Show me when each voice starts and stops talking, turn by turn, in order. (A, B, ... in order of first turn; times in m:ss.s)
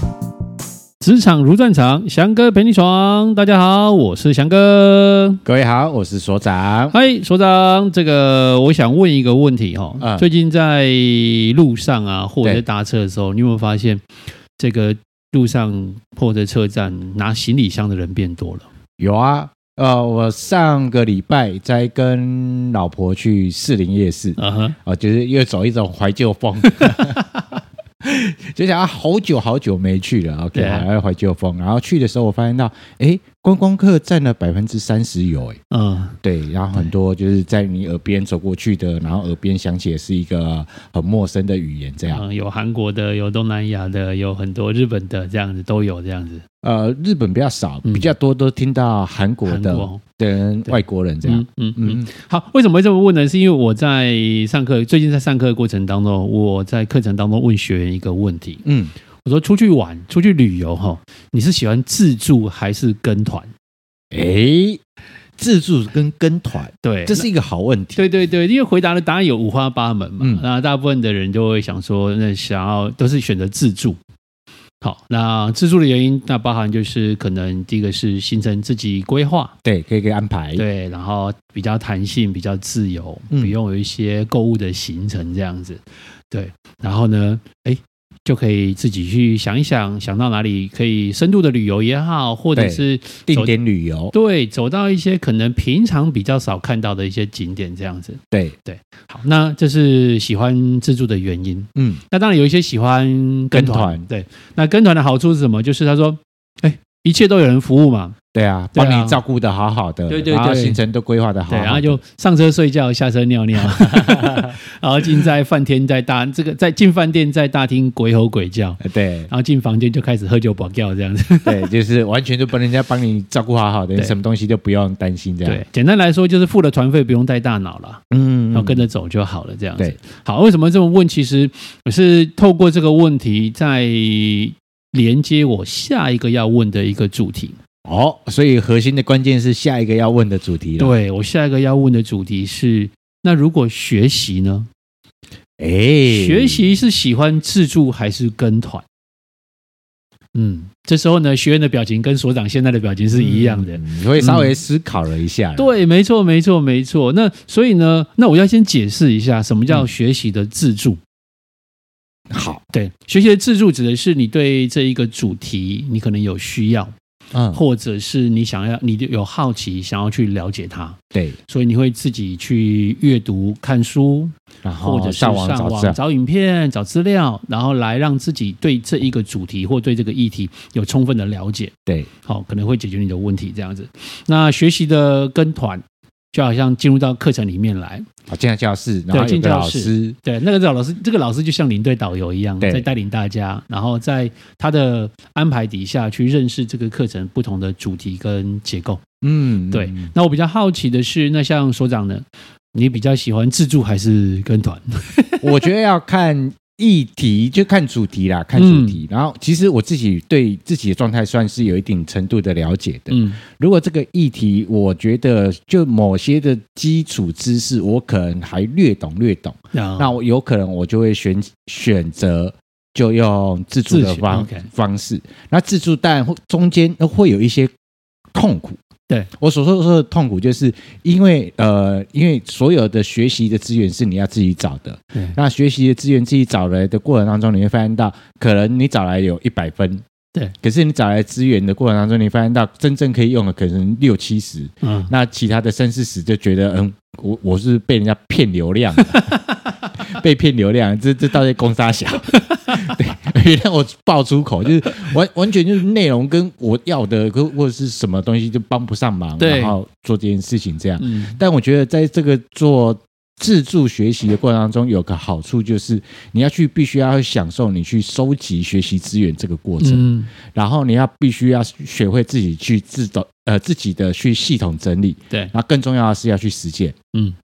0:01.0-0:05.4 A
0:05.4-0:07.0 B
0:06.9-0:14.0 A
0:10.0-0:10.2 B
0:14.6-0:18.6 A
0:19.0-0:27.2 B
0:24.4-0:24.8 A
0:26.8-0:27.4 A
0:28.0-0:35.6 B
0:30.5-0:30.8 A
0:35.7-0:36.2 A
0:36.2-0:42.2 B
0:42.1-0:46.4 A
0:46.6-0:52.1 B
0:47.8-0:48.1 A
0:49.4-0:50.0 A
0:50.7-0:58.6 A
0:58.6-0:58.9 B
0:59.2-1:03.5 A
1:04.1-1:04.8 B
1:05.4-1:08.0 B
1:06.8-1:07.3 A
1:08.0-1:14.0 A
1:14.8-1:19.5 A
1:19.6-1:20.6 B
1:20.6-1:33.5 A
1:32.5-1:34.1 B
1:34.1-1:48.2 A
1:41.8-1:42.0 B
1:43.5-1:44.1 B
1:48.3-1:52.0 B
1:48.7-1:49.2 A
1:50.1-1:50.8 A
1:51.5-2:01.7 A
1:53.6-1:54.5 B
1:58.8-1:59.3 B
2:01.4-2:05.6 B
2:05.4-2:17.6 A
2:08.1-2:08.8 B
2:17.8-2:21.0 B
2:20.8-2:24.7 A
2:25.6-2:26.6 B
2:26.1-2:28.8 A
2:30.3-2:34.6 A
2:33.1-2:35.7 B
2:35.6-2:41.0 A
2:42.3-2:42.6 B
2:42.7-2:46.9 A
2:47.3-2:47.6 B
2:47.5-2:51.0 A
2:51.5-3:01.7 A
2:54.6-2:56.0 B
3:02.2-3:08.0 A
3:08.3-3:10.2 B
3:09.1-3:19.0 A
3:12.6-3:12.9 B
3:19.2-3:20.1 B
3:19.7-3:25.4 A
3:25.4-3:47.7 B
3:28.6-3:29.0 A
3:33.1-3:33.4 A
3:39.7-3:40.1 A
3:43.9-3:44.7 A
3:48.3-3:48.8 B
3:49.4-4:00.0 B
4:00.6-4:09.2 B
4:04.8-4:05.1 A
4:09.1-4:09.7 A
4:10.1-4:36.9 B
4:19.4-4:19.8 A
4:21.0-4:21.4 A
4:29.8-4:30.3 A